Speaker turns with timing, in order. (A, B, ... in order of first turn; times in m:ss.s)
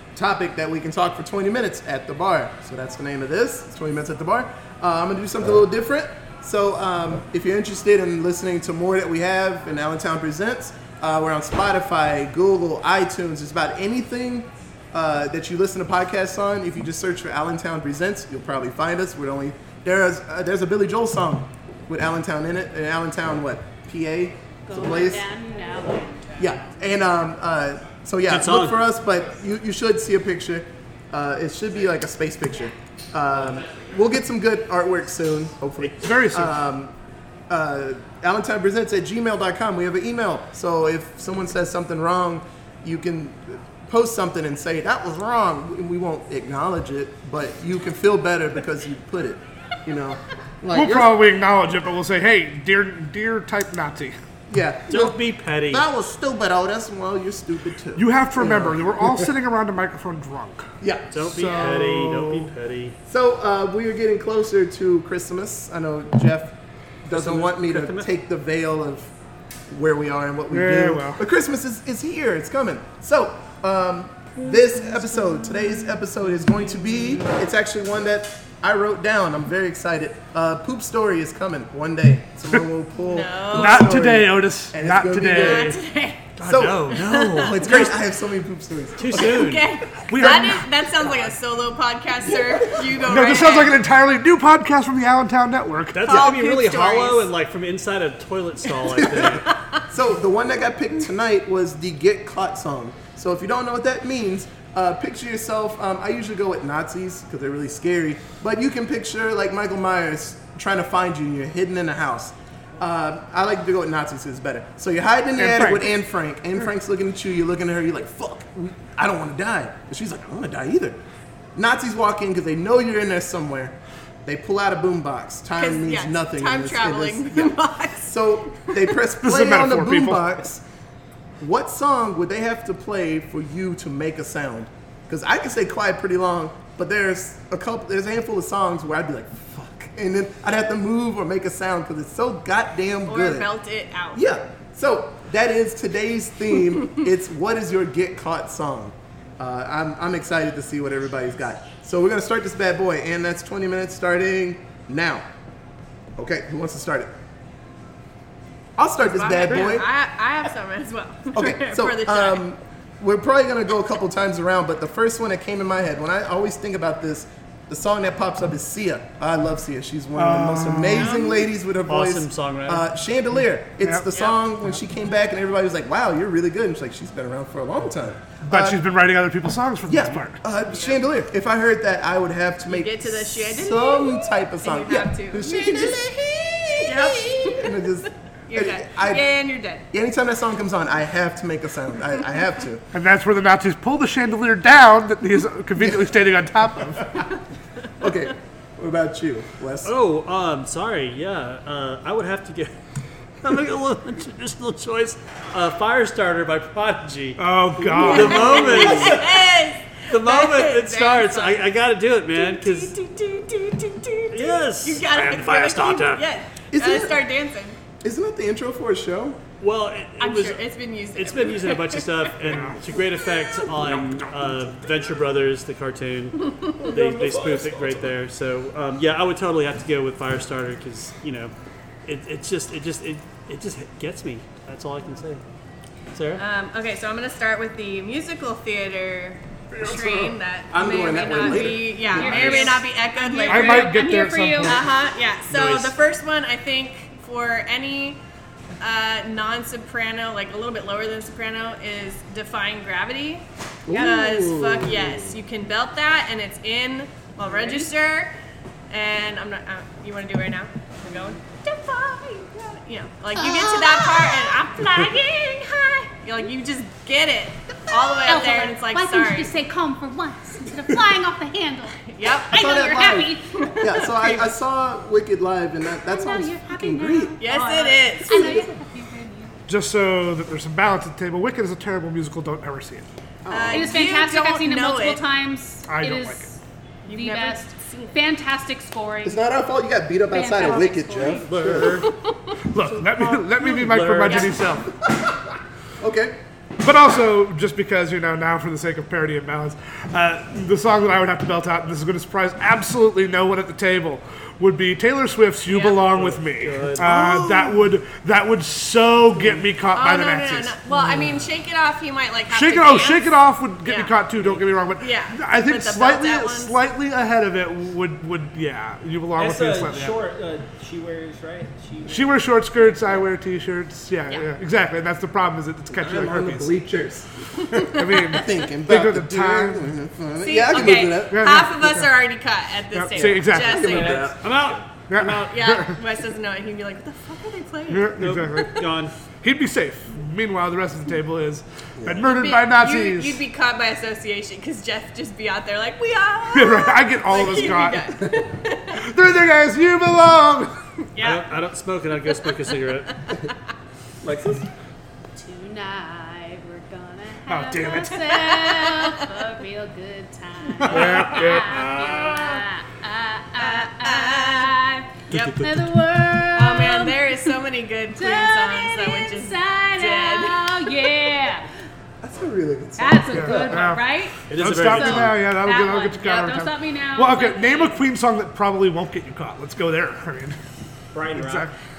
0:00.2-0:25.2 A
0:24.7-0:26.6 B
0:26.4-0:36.9 A
0:28.3-0:28.9 C
0:36.0-0:36.6 D
0:37.5-0:51.2 A
0:50.7-0:54.2 D
0:54.5-0:59.3 A
0:54.9-0:55.8 C
0:58.0-1:02.5 D
1:00.8-1:01.1 A
1:01.1-1:03.0 C
1:03.1-1:09.1 A
1:07.1-1:08.1 C
1:09.7-1:25.8 A
1:10.5-1:11.2 D
1:15.4-1:15.8 B
1:23.0-1:24.0 E
1:23.5-1:25.8 D
1:25.3-1:26.3 E
1:26.4-1:28.0 C
1:26.4-1:29.5 A
1:26.9-1:28.0 E
1:29.0-1:29.8 C
1:29.1-1:33.8 E
1:30.0-1:30.7 D
1:32.2-1:32.9 A
1:33.0-1:36.0 D
1:35.9-1:39.4 C
1:36.0-1:37.3 E
1:36.1-1:36.3 A
1:39.0-2:01.0 A
1:39.4-1:39.8 E
1:55.4-1:55.9 D
2:01.6-2:10.6 A
2:05.6-2:08.8 E
2:09.2-2:10.2 D
2:11.4-2:23.5 A
2:23.1-2:24.2 E
2:24.1-2:35.2 A
2:36.2-2:37.1 A
2:38.8-2:39.9 A
2:39.0-2:42.4 E
2:41.3-2:58.8 A
2:50.1-2:51.1 D
2:50.9-2:51.5 E
2:51.9-2:52.8 C
2:54.1-2:54.4 E
2:58.5-3:00.4 D
2:59.9-3:09.3 A
3:00.7-3:01.0 E
3:02.7-3:06.0 E
3:06.8-3:07.9 E
3:08.5-3:09.8 E
3:09.9-3:12.8 A
3:12.9-3:17.2 D
3:15.8-3:16.0 A
3:18.0-3:19.9 A
3:19.8-3:22.7 C
3:23.4-3:29.5 C
3:27.4-3:28.8 D
3:28.0-3:31.8 E
3:30.1-3:32.9 C
3:32.3-3:37.8 E
3:34.3-3:36.2 C
3:36.7-3:37.2 A
3:38.0-3:39.4 A
3:39.6-3:51.5 C
3:40.2-3:42.3 E
3:42.4-3:42.8 D
3:43.8-3:44.8 D
3:46.4-3:47.0 E
3:46.9-3:48.1 F
3:52.0-3:55.4 C
3:56.1-3:56.4 C
3:56.4-4:04.1 E
3:59.8-4:02.7 A
4:01.2-4:04.8 B
4:02.2-4:02.7 C
4:03.4-4:04.8 D
4:04.6-4:08.2 E
4:05.5-4:05.9 C
4:08.8-4:18.3 E
4:13.9-4:15.4 A
4:18.9-4:29.6 E
4:23.3-4:24.6 B
4:28.0-4:33.6 B
4:32.0-4:32.6 E
4:32.5-4:37.4 A
4:33.5-4:34.5 E
4:36.0-4:39.6 B
4:37.4-4:38.7 E
4:38.3-4:38.7 A
4:39.7-4:43.1 D
4:43.4-4:44.0 A
4:43.5-4:45.2 E
4:43.7-4:49.4 B
4:45.9-4:46.5 D
4:47.1-4:48.2 E
4:49.2-4:52.0 A
4:50.3-4:51.8 B
4:51.2-4:52.1 C
4:52.0-4:52.3 E
4:52.7-4:54.9 D
4:53.0-4:54.6 C
4:54.2-4:54.5 E
4:56.0-4:56.3 A
4:56.8-5:10.8 D
5:05.7-5:06.0 E
5:06.0-5:07.1 C
5:07.1-5:07.5 A
5:09.3-5:09.6 C
5:09.9-5:14.1 E
5:12.5-5:20.2 D
5:15.0-5:16.7 E
5:19.4-5:23.0 F
5:22.1-5:26.8 D
5:25.9-5:31.6 A
5:27.7-5:29.9 D
5:27.8-5:28.4 E
5:30.4-5:34.4 E
5:31.3-5:32.1 D
5:32.9-5:34.2 D
5:33.5-5:34.4 A
5:33.8-5:34.8 F
5:34.4-5:34.8 C
5:35.1-5:36.0 D
5:35.1-5:38.2 E
5:37.9-5:38.9 D
5:38.1-5:39.1 C
5:39.4-5:43.4 D
5:42.0-5:42.3 A
5:42.2-5:49.0 E
5:46.5-5:48.2 D
5:48.9-5:50.8 D
5:51.1-5:51.4 E
5:51.2-5:53.2 C
5:54.2-5:54.6 A
5:55.4-6:07.6 B
5:57.5-5:58.4 D
5:58.4-5:59.2 E
6:00.8-6:02.6 D
6:03.6-6:04.8 E
6:05.3-6:05.9 C
6:05.3-6:05.6 E
6:06.6-6:11.1 E
6:08.1-6:11.7 B
6:12.2-6:13.8 A
6:13.0-6:18.0 B
6:13.3-6:20.6 D
6:14.5-6:15.4 C
6:21.1-6:21.7 F
6:21.3-6:21.7 D